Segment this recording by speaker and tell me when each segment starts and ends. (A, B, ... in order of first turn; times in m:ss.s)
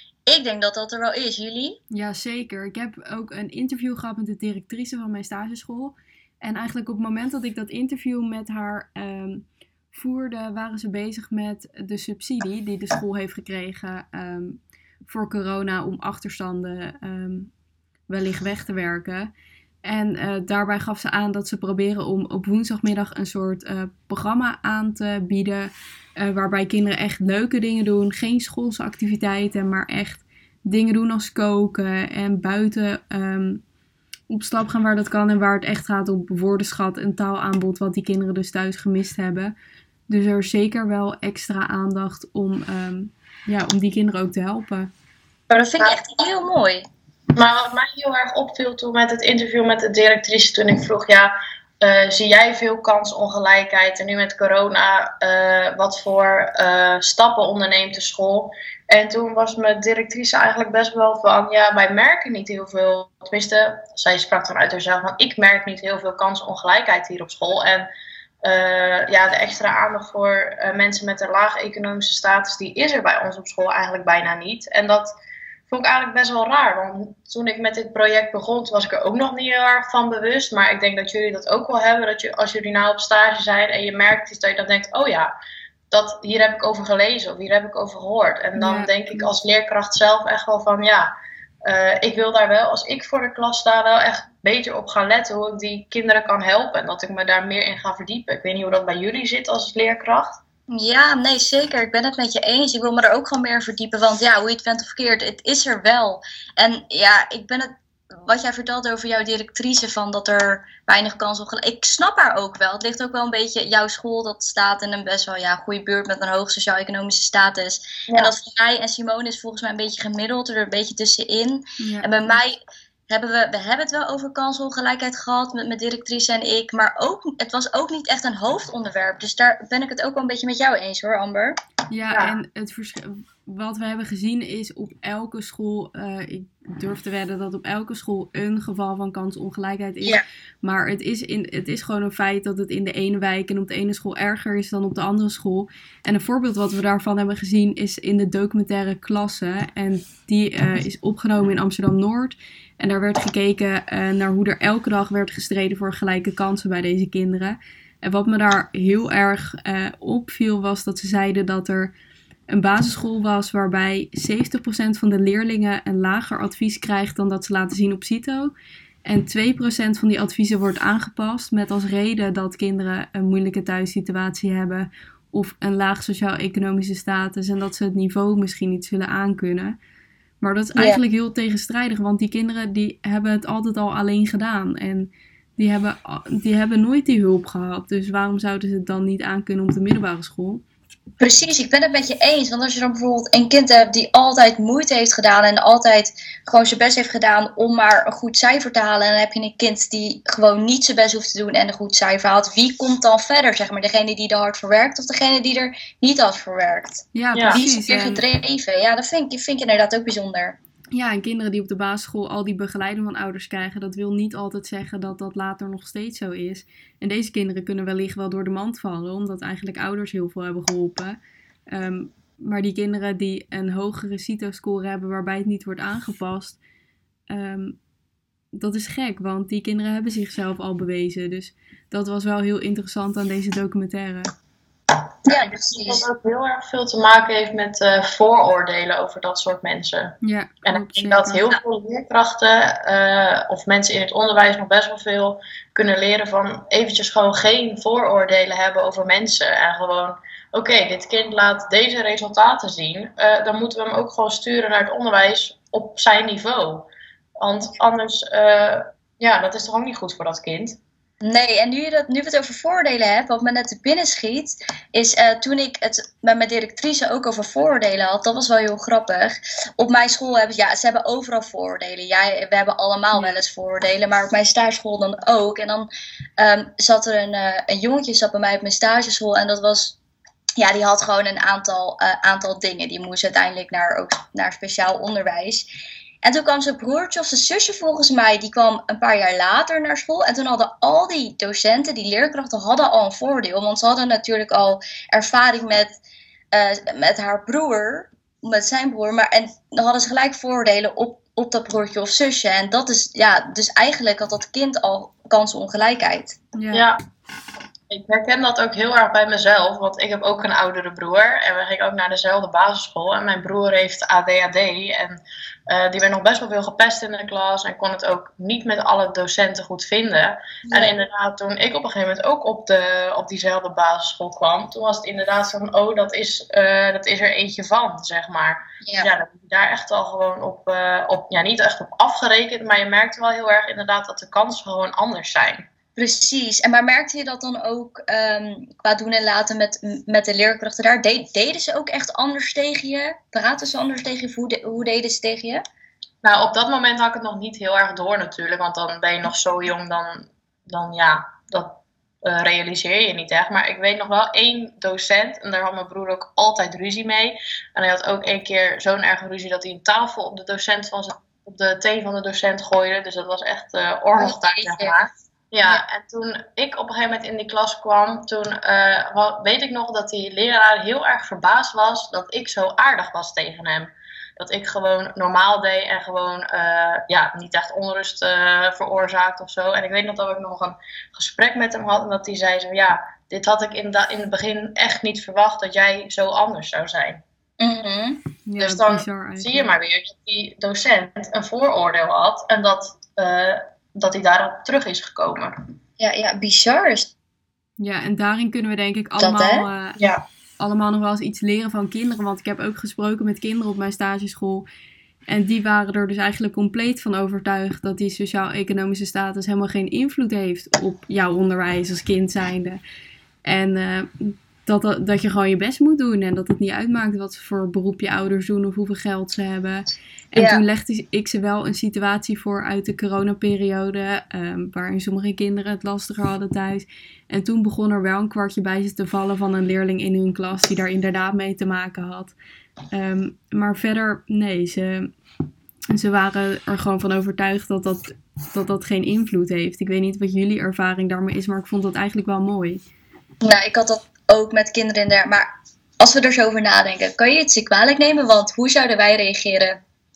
0:00.3-0:01.8 A
0:01.9-0:17.5 B
0:18.1-0:19.3 B
0:19.8-0:33.6 B
0:34.3-0:39.5 B
0:40.1-0:44.9 B
0:45.5-0:46.0 C
0:45.5-0:46.8 A
0:47.4-1:07.9 C
1:08.4-1:15.1 C
1:15.7-1:25.3 C
1:25.9-1:40.4 C
1:28.6-1:29.3 B
1:40.7-2:11.6 A
2:01.8-2:02.1 B
2:11.9-2:41.9 B
2:42.5-2:48.5 B
2:49.0-2:59.8 B
3:00.4-3:10.6 B
3:11.2-3:30.6 A
3:27.1-3:28.2 B
3:30.9-3:41.2 B
3:41.7-3:46.6 B
3:47.3-3:47.8 B
3:48.5-3:54.3 B
3:55.3-3:56.0 A
3:55.3-4:20.8 C
4:00.2-4:01.4 B
4:21.2-4:40.0 A
4:40.6-4:45.7 A
4:46.2-4:56.0 A
4:56.5-5:06.4 A
5:06.5-5:06.9 B
5:06.7-5:07.0 C
5:07.9-5:35.7 C
5:20.7-5:20.9 A
5:36.0-5:45.6 A
5:46.2-6:27.2 C
6:04.2-6:04.9 A
6:27.6-6:28.2 A
6:28.5-6:29.7 B
6:28.6-6:35.6 C
6:36.0-6:37.1 A
6:37.8-6:40.0 B
6:39.2-6:39.7 A
6:40.0-6:40.2 C
6:40.6-6:44.6 B
6:45.3-6:52.8 B
6:53.4-7:12.3 B
7:00.4-7:00.6 A
7:12.9-7:15.1 B
7:15.9-7:22.8 B
7:23.4-7:25.5 A
7:26.0-7:29.8 A